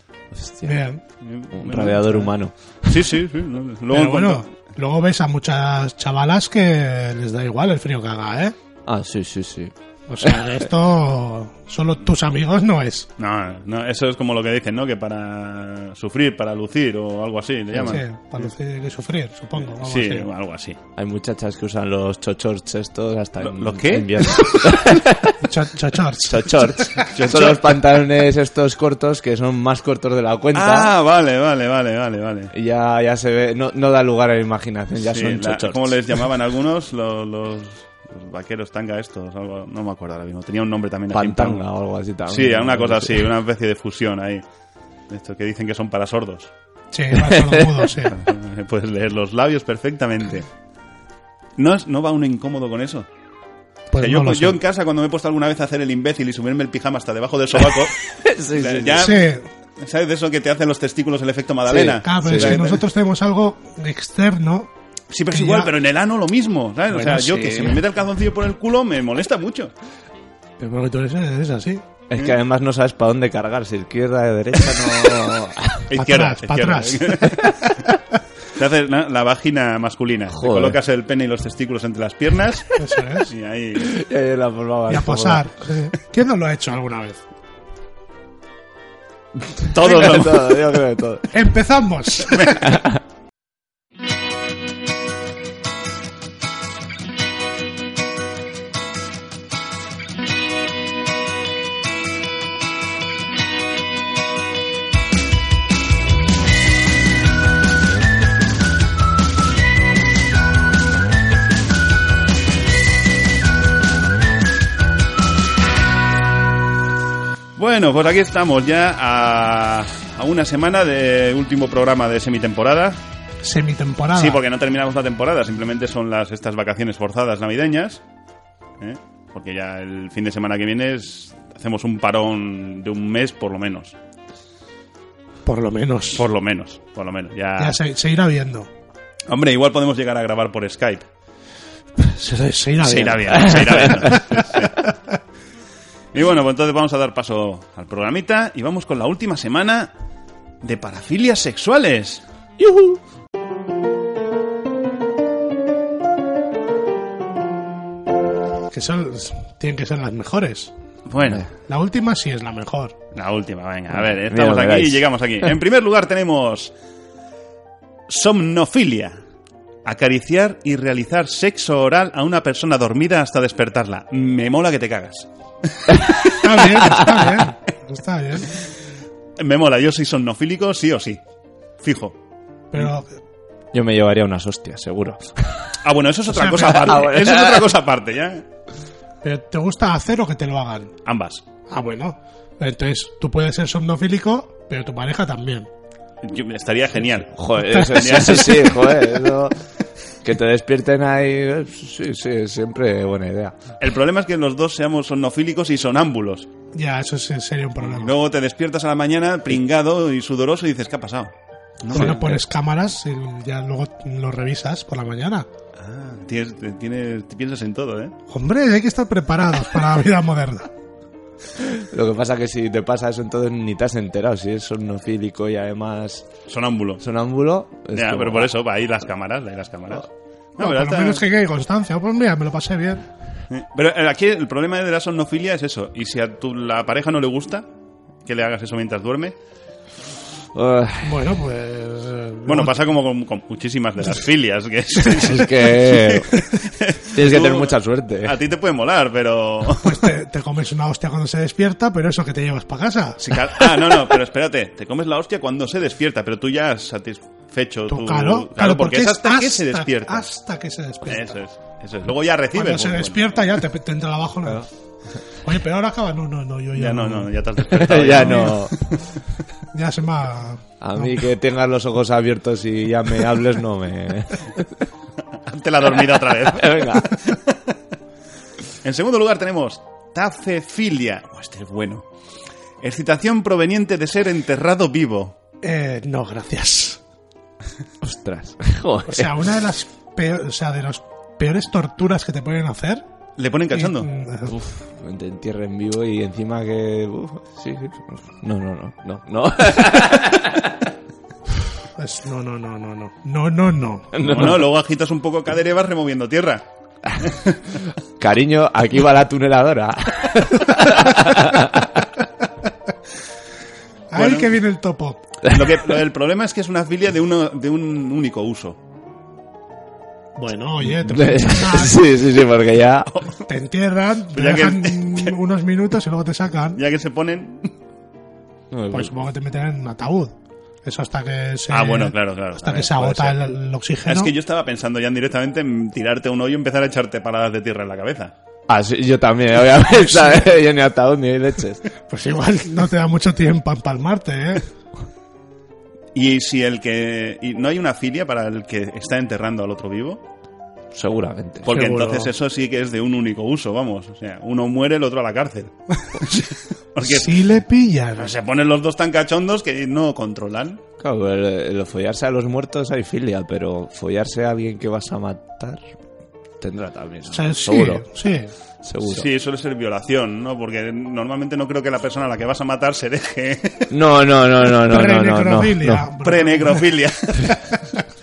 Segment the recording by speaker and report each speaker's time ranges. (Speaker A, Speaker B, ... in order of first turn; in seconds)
Speaker A: 0.3-0.8, 1.5-3.2, 8.9-10.7, 21.0-25.4, 26.2-30.9, 32.5-36.2, 41.1-43.4, 47.3-47.6, 57.6-59.0, 61.7-62.8, 72.1-75.9, 80.3-80.8, 83.8-85.4, 89.6-91.3, 92.7-93.0, 143.5-144.2, 152.6-153.0, 163.9-165.5, 183.7-185.5, 186.5-187.7, 197.3-199.6, 200.2-203.6, 221.6-226.3, 227.0-228.5, 240.5-241.3, 245.1-246.4, 247.2-248.4, 267.7-268.8, 270.8-274.8, 276.4-277.1, 288.0-289.4, 294.5-300.9, 304.1-304.7, 308.2-312.1, 315.4-315.8, 320.8-323.1, 328.7-329.1, 338.7-341.8, 350.9-351.7, 361.0-365.8, 366.6-368.1, 368.8-369.3, 373.9-376.1
Speaker B: 0.6-1.0, 3.9-8.6, 10.1-13.1, 17.9-20.3, 25.4-27.1, 46.9-48.2, 53.9-54.6, 59.0-59.5, 62.0-64.7, 65.3-65.7, 66.9-67.8, 70.6-71.8, 76.0-77.4, 82.8-83.3, 84.9-87.2, 91.3-92.7, 123.4-124.4, 135.5-136.2, 137.6-138.7, 142.0-144.2, 158.7-160.7, 161.7-162.9, 176.3-178.5, 182.7-183.1, 186.3-186.8, 189.2-190.9, 191.7-195.7, 197.6-198.5, 206.8-208.2, 211.9-215.5, 218.3-220.7, 230.6-233.1, 241.0-242.8, 249.8-253.8, 257.9-261.4, 262.6-264.7, 265.4-267.3, 268.1-268.5, 269.7-271.2, 285.6-287.0, 289.1-293.0, 293.7-294.5, 302.0-304.3, 314.1-315.2, 320.4-322.0, 323.5-326.8, 328.9-330.3, 330.9-334.3, 340.1-340.4, 342.1-344.6, 351.7-352.3, 357.0-358.3, 367.3-368.5, 374.9-376.9
Speaker C: 1.2-2.3, 2.9-4.5, 13.2-18.5, 19.6-20.8, 23.4-24.7, 27.1-27.8, 30.5-32.5, 35.1-41.6, 42.3-44.4, 45.1-46.5, 48.1-50.5, 51.6-53.1, 54.0-62.8, 65.1-69.7, 75.9-77.5, 78.5-82.8, 83.3-83.9, 89.7-90.7, 92.3-92.5, 117.6-123.0, 124.1-128.0, 128.8-134.0, 136.1-137.8, 139.3-141.1, 142.8-144.9, 146.1-149.9, 150.6-152.2, 161.1-161.5, 163.2-166.7, 168.1-169.2, 169.8-176.4, 179.4-181.2, 181.8-182.2, 185.8-188.4, 191.1-191.4, 196.2-198.6, 203.8-206.5, 207.8-212.4, 215.8-218.2, 226.5-227.0, 227.9-231.2, 233.5-237.7, 238.2-239.3, 242.5-250.1, 253.2-260.3, 261.1-263.3, 266.8-269.1, 275.5-277.7, 278.8-282.1, 282.8-285.4, 293.4-294.1, 304.2-306.6, 307.2-307.8, 314.1-314.6, 315.4-318.8, 323.1-323.5, 324.3-325.4, 326.8-327.7, 331.7-333.4, 334.1-338.3, 346.1-350.2, 351.6-357.4, 358.2-360.8, 369.1-373.9, 376.2-377.6